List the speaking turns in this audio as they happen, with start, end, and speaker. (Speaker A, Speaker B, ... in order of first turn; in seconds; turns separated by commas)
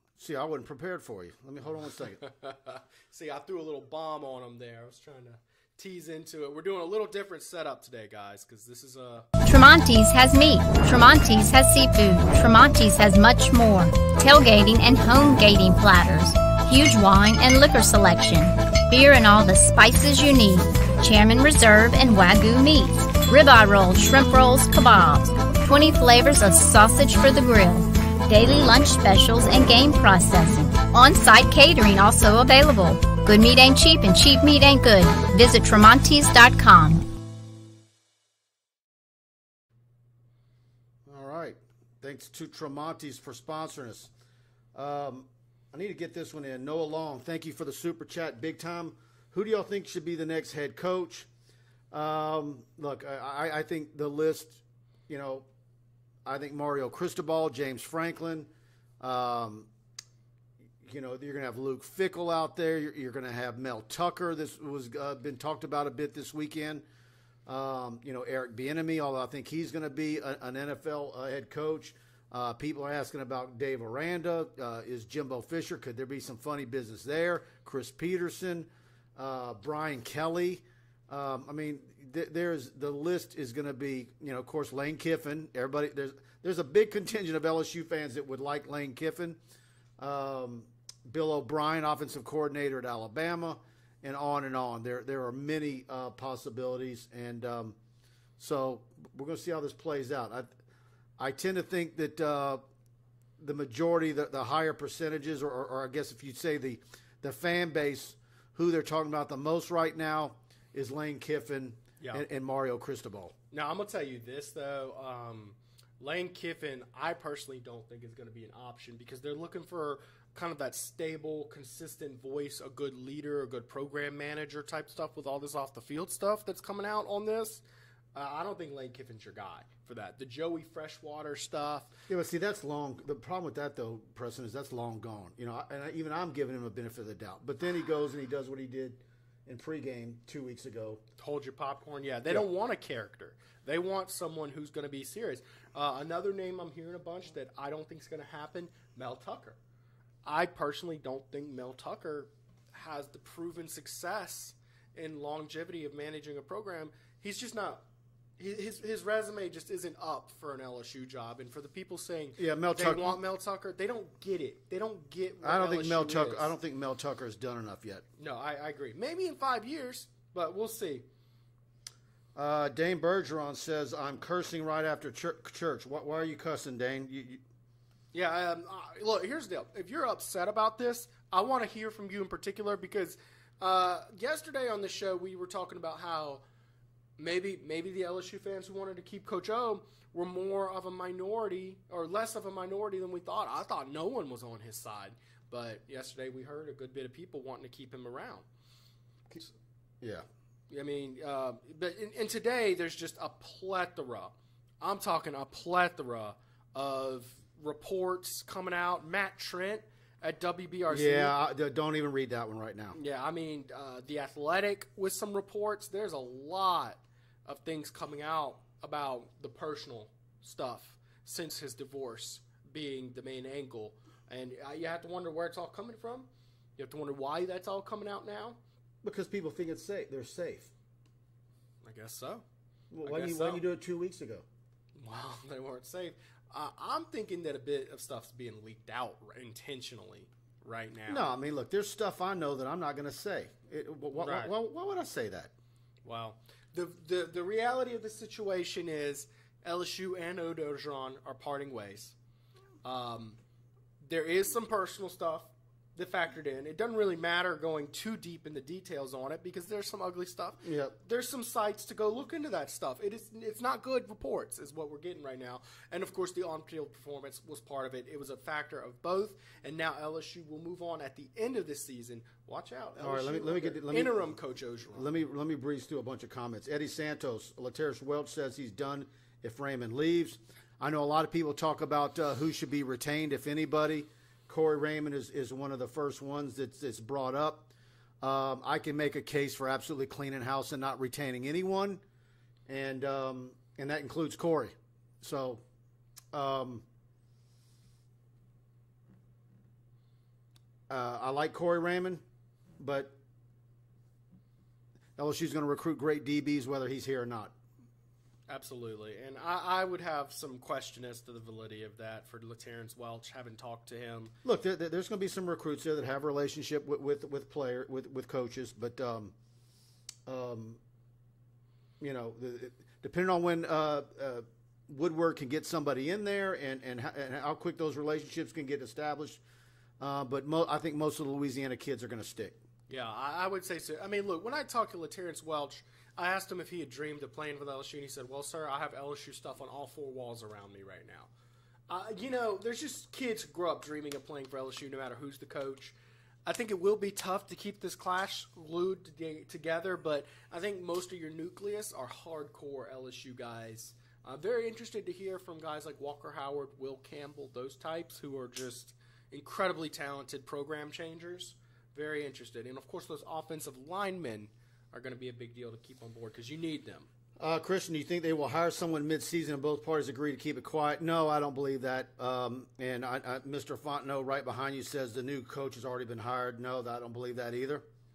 Speaker A: 0.2-2.2, Speaker B: 2.0-9.3, Speaker C: 9.4-37.0, Speaker A: 41.1-44.1, Speaker A: 44.7-51.3, Speaker A: 51.9-55.5, Speaker A: 56.2-58.5, Speaker A: 59.0-59.7, Speaker A: 60.8-66.8, Speaker A: 67.5-89.4, Speaker A: 90.0-97.8, Speaker A: 98.4-100.5, Speaker A: 101.2-102.6, Speaker A: 103.4-113.3, Speaker B: 112.0-112.2, Speaker B: 113.5-127.6, Speaker B: 128.2-131.9, Speaker A: 132.1-141.0, Speaker B: 141.2-149.6, Speaker B: 150.2-157.8, Speaker B: 158.4-166.5, Speaker A: 162.4-163.2, Speaker A: 165.4-168.0, Speaker B: 168.2-171.1, Speaker A: 172.3-177.4, Speaker B: 178.1-186.4, Speaker B: 187.2-198.4, Speaker B: 200.7-211.3, Speaker A: 210.9-213.0, Speaker B: 212.9-228.6, Speaker A: 229.0-230.7, Speaker B: 231.8-232.4, Speaker A: 232.9-234.4, Speaker B: 233.0-233.6, Speaker B: 235.0-241.3, Speaker A: 241.1-245.5, Speaker B: 244.2-244.5, Speaker B: 246.1-252.2, Speaker B: 252.8-253.4, Speaker B: 254.0-275.2, Speaker A: 260.6-260.9, Speaker A: 273.0-274.4, Speaker A: 274.9-287.7, Speaker A: 288.2-292.0, Speaker A: 292.7-295.6, Speaker A: 296.3-296.9, Speaker A: 300.9-302.2, Speaker A: 302.8-303.1, Speaker A: 305.2-307.6, Speaker B: 308.5-314.4, Speaker A: 314.4-319.3, Speaker A: 320.3-320.8, Speaker A: 322.0-329.4, Speaker A: 330.0-332.6, Speaker B: 332.9-341.3, Speaker B: 341.9-345.9, Speaker B: 346.5-367.1, Speaker A: 367.4-377.9